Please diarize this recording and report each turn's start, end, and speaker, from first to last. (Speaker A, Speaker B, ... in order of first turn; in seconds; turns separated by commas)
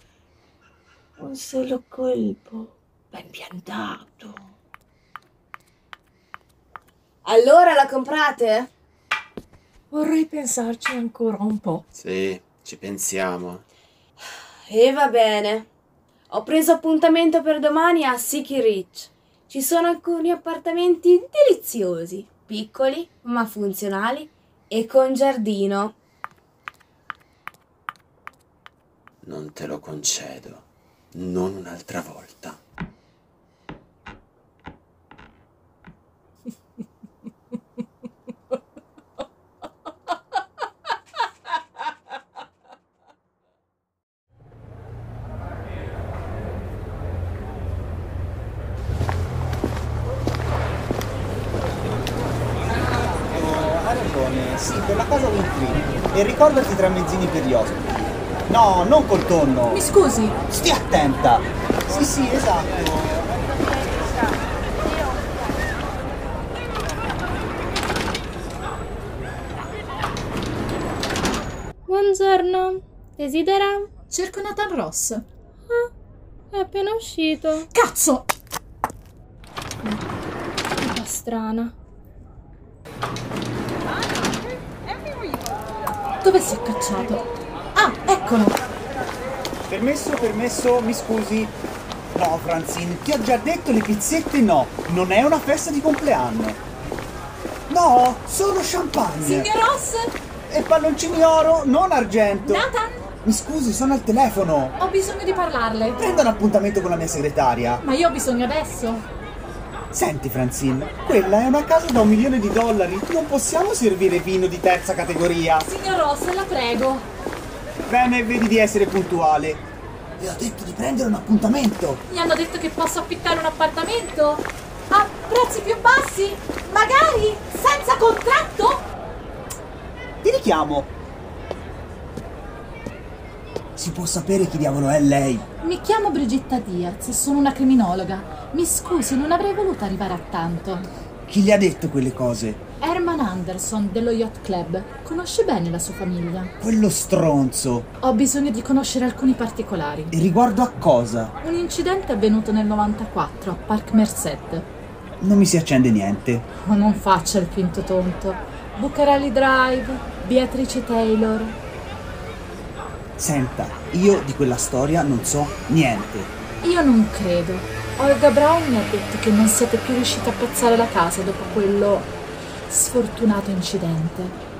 Speaker A: 1.2-4.5, Speaker B: 7.2-8.7, Speaker A: 9.9-11.8, Speaker C: 11.9-13.6, Speaker B: 14.7-15.7, Speaker B: 16.3-25.9, Speaker C: 29.2-32.6, Speaker D: 53.2-59.8, Speaker E: 59.7-60.4, Speaker D: 60.5-63.3, Speaker F: 71.9-73.9, Speaker E: 74.1-75.2, Speaker F: 76.5-77.7, Speaker E: 77.7-78.3, Speaker F: 80.7-81.7, Speaker E: 86.2-88.6, Speaker D: 89.7-91.5, Speaker D: 92.1-96.6, Speaker D: 97.7-99.5, Speaker E: 99.2-100.1, Speaker D: 100.5-102.7, Speaker E: 102.4-103.0, Speaker D: 103.2-104.7, Speaker E: 104.8-106.2, Speaker D: 106.0-107.8, Speaker E: 107.8-109.1, Speaker D: 109.9-115.7, Speaker E: 115.6-117.1, Speaker D: 117.8-119.7, Speaker D: 120.2-122.0, Speaker E: 122.1-128.8, Speaker D: 130.2-130.9, Speaker D: 133.7-135.4, Speaker E: 135.6-140.9, Speaker D: 141.3-142.6, Speaker E: 142.8-146.5, Speaker D: 146.6-147.9, Speaker E: 148.0-150.1, Speaker D: 150.1-151.3, Speaker E: 151.4-154.7, Speaker D: 155.2-156.4, Speaker E: 156.6-161.6, Speaker D: 163.2-166.3, Speaker E: 166.6-172.1, Speaker E: 172.7-174.4